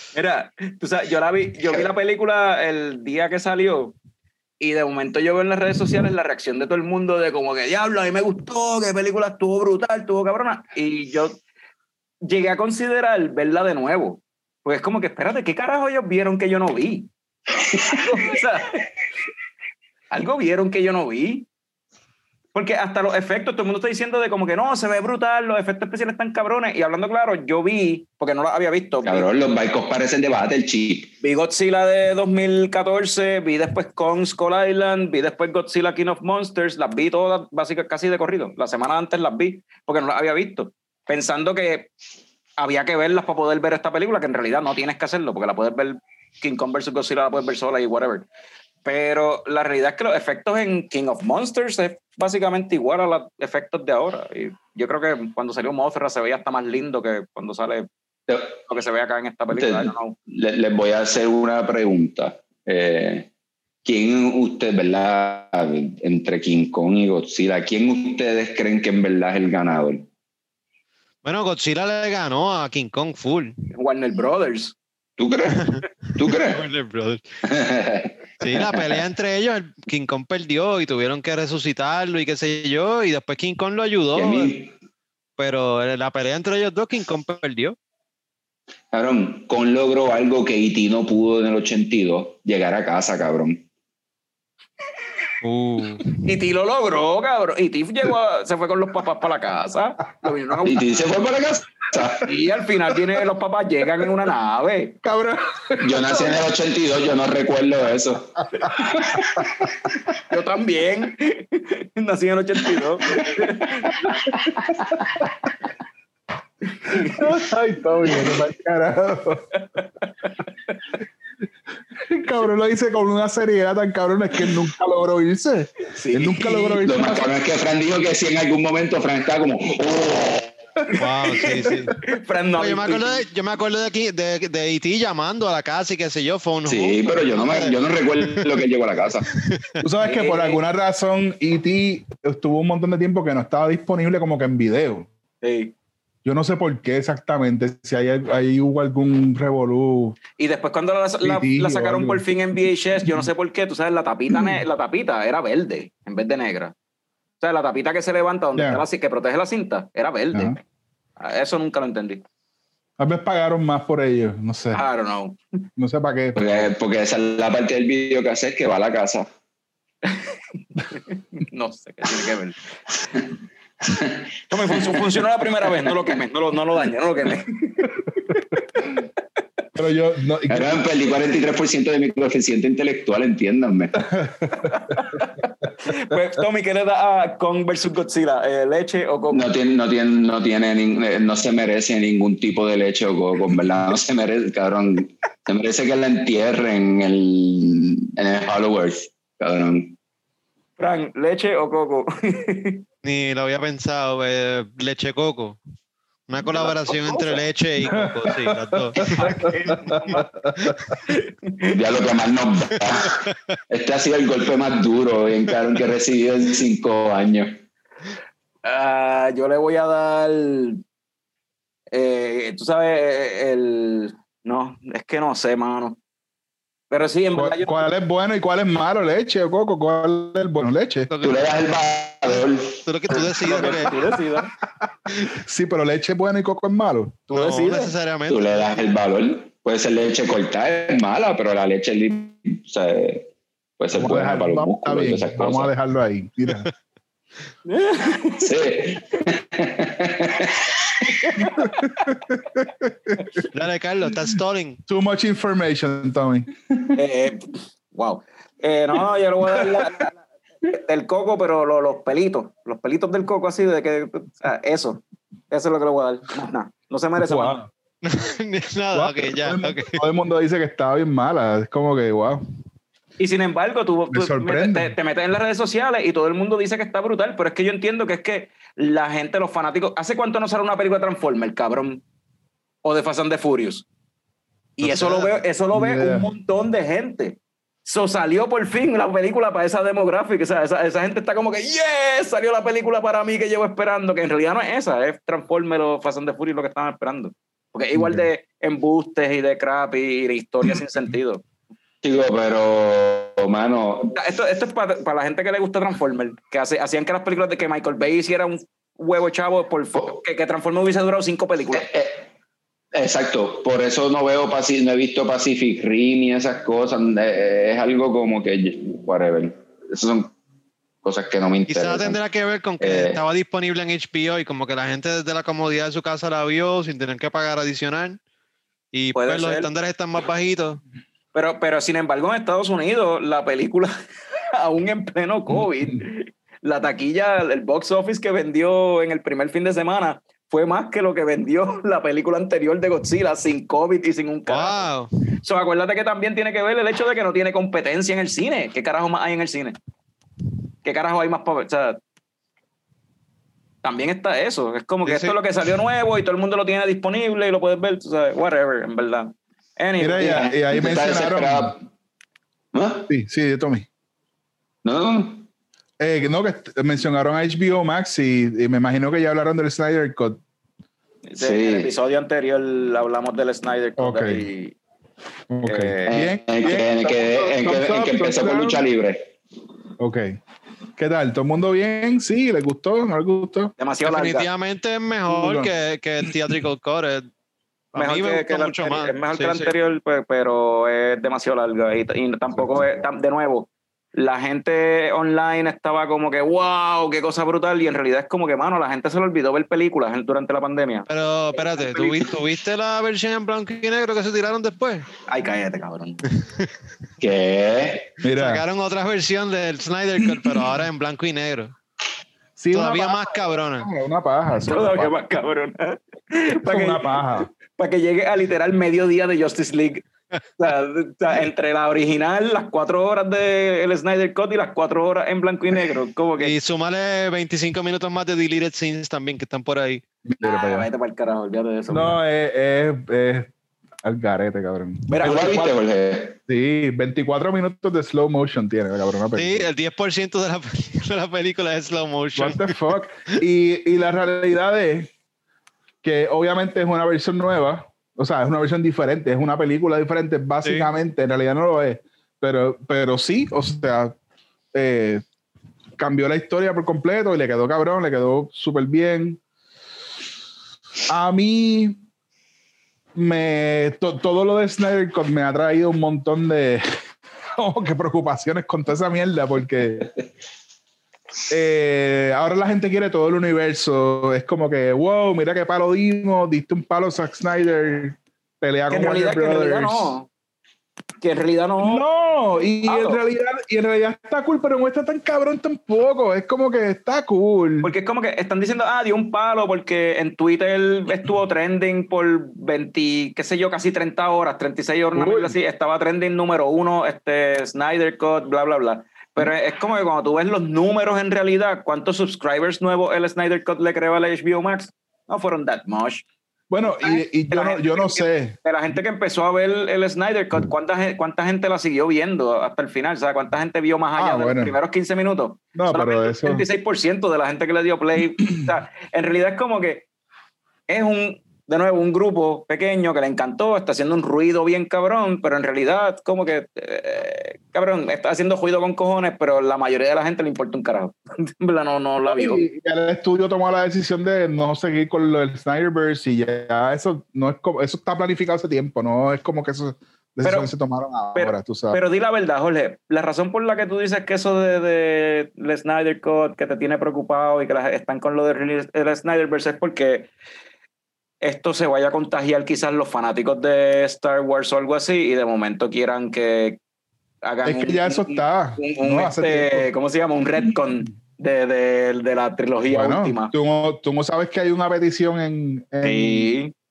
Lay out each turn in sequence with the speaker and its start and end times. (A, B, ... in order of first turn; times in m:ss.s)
0:00.1-0:04.0 A
0:04.6-0:11.4 A
0:12.2-0:17.1 A
0:17.7-0:18.1 B
0:18.0-0:18.8 A
0:20.1-0:21.5 A
0:22.5-0:29.3 A
0:29.0-0:31.1 B
0:31.2-0:41.9 A
0:42.6-0:48.3 A
0:48.8-0:57.9 A
0:58.3-0:58.6 B
0:58.7-1:00.2 A
0:59.5-1:03.3 B
1:03.8-1:10.1 B
1:11.2-1:13.5 C
1:13.7-1:14.8 A
1:15.2-1:16.6 B
1:16.5-1:17.2 C
1:17.4-1:18.9 B
1:18.4-1:24.5 C
1:24.1-1:24.7 B
1:25.4-1:27.8 C
1:28.9-1:33.6 B
1:35.4-1:36.0 C
1:36.2-1:41.0 A
1:40.6-1:42.3 B
1:42.2-1:45.0 A
1:45.0-1:46.3 D
1:45.8-1:49.7 B
1:48.6-1:49.7 D
1:50.3-1:54.0 A
1:54.0-1:54.5 D
1:54.1-1:54.6 B
1:56.7-1:57.4 A
1:57.0-1:59.5 D
1:59.8-2:00.3 A
2:02.0-2:07.3 D
2:05.9-2:06.8 A
2:06.8-2:10.5 B
2:10.9-2:13.2 A
2:10.9-2:12.0 C
2:12.5-2:18.5 C
2:16.6-2:19.3 B
2:19.3-2:19.8 C
2:19.8-2:25.1 D
2:20.0-2:20.6 A
2:25.4-2:25.7 A
2:26.2-2:30.2 D
2:30.4-2:36.7 A
2:31.2-2:32.3 D
2:34.3-2:34.6 D
2:37.4-2:40.5 A
2:38.6-2:38.8 D
2:41.2-2:42.2 A
2:43.0-2:44.8 D
2:44.7-2:45.4 A
2:45.8-2:46.6 D
2:46.3-2:49.3 B
2:50.9-2:52.6 A
2:53.8-2:55.0 B
2:54.5-2:58.0 A
2:59.7-3:00.8 D
3:00.5-3:04.1 B
3:04.0-3:05.0 D
3:04.6-3:09.4 A
3:09.3-3:19.9 B
3:20.8-3:22.8 A
3:23.0-3:25.6 C
3:26.3-3:29.2 C
3:26.6-3:27.4 A
3:27.9-3:31.0 D
3:29.0-3:30.3 A
3:31.1-3:31.8 A
3:31.7-3:37.5 B
3:32.8-3:33.6 C
3:38.6-3:40.8 A
3:41.9-3:46.0 A
3:46.9-3:47.9 A
3:47.3-3:51.1 D
3:51.1-3:51.5 C
3:51.2-3:52.8 B
3:52.2-3:54.1 C
3:53.1-3:54.5 A
3:54.8-3:57.2 D
3:57.3-3:58.8 C
3:57.3-3:57.9 A
3:58.3-4:03.3 B
4:03.8-4:05.7 B
4:03.9-4:06.7 D
4:07.6-4:08.5 A
4:08.4-4:11.1 B
4:11.1-4:11.9 A
4:12.0-4:13.3 D
4:13.5-4:14.8 C
4:14.9-4:16.5 D
4:17.0-4:20.1 A
4:20.7-4:27.6 A
4:27.2-4:27.7 D
4:28.0-4:30.0 C
4:28.9-4:32.4 D
4:33.2-4:42.0 A
4:34.1-4:34.9 D
4:42.8-4:43.8 A
4:44.8-5:01.4 A
4:44.9-4:46.3 D
4:57.9-4:58.3 D
5:02.0-5:04.2 B
5:04.1-5:11.9 A
5:11.7-5:12.2 B
5:12.9-5:20.3 B
5:21.0-5:22.2 B
5:21.7-5:28.2 C
5:22.8-5:23.2 B
5:28.9-5:30.8 C
5:29.1-5:29.7 A
5:31.3-5:33.9 A
5:34.5-5:44.8 A
5:44.5-5:45.1 C
5:45.4-5:49.8 A
5:50.8-5:52.0 A
5:53.8-6:00.6 A
5:55.0-5:55.3 C
6:00.0-6:01.8 D
6:00.2-6:01.8 B
6:02.7-6:03.1 B
6:03.1-6:03.9 D
6:04.8-6:05.4 B
6:06.0-6:10.4 D
6:11.3-6:14.8 A
6:11.4-6:11.9 B
6:14.0-6:14.5 D
6:15.5-6:18.8 D
6:15.6-6:16.2 A
6:16.1-6:19.3 B
6:20.0-6:20.4 D
6:21.0-6:23.7 D
6:23.8-6:24.5 A
6:24.0-6:27.3 C
6:25.3-6:25.7 D
6:27.9-6:29.7 C
6:28.0-6:42.2 A
6:32.5-6:32.8 D
6:41.1-6:45.1 C
6:45.3-6:46.2 A
6:46.4-6:46.7 C
6:47.2-6:48.1 B
6:48.2-6:48.6 D
6:48.3-6:51.7 C
6:50.4-6:50.7 D
6:52.6-6:55.1 D
6:52.7-6:53.9 C
6:54.6-7:00.1 A
6:56.6-6:57.5 D
7:00.6-7:06.5 A
7:06.4-7:10.0 C
7:10.2-7:10.8 D
7:10.4-7:12.2 A
7:11.9-7:15.1 D
7:15.1-7:15.8 A
7:15.2-7:16.4 B
7:16.5-7:19.7 D
7:19.4-7:22.8 C
7:22.4-7:25.1 D
7:26.0-7:34.2 D
7:30.6-7:30.9 C
7:34.7-7:35.2 D
7:36.0-7:39.4 D
7:41.1-7:42.0 D
7:43.1-7:46.8 D
7:47.6-7:50.1 D
7:51.5-8:00.1 D
7:58.9-8:00.3 A
8:01.2-8:02.0 A
8:01.8-8:07.9 D
8:02.8-8:03.2 A
8:07.8-8:26.2 A
8:15.1-8:15.6 D
8:26.7-8:28.6 D
8:26.8-8:40.0 A
8:34.2-8:34.7 D
8:35.7-8:36.6 D
8:40.9-8:52.6 A
8:52.3-9:02.0 D
9:00.4-9:00.7 A
9:01.3-9:10.3 A
9:11.4-9:16.8 A
9:17.4-9:23.5 A
9:17.6-9:19.9 D
9:22.9-9:26.5 D
9:26.0-9:26.7 A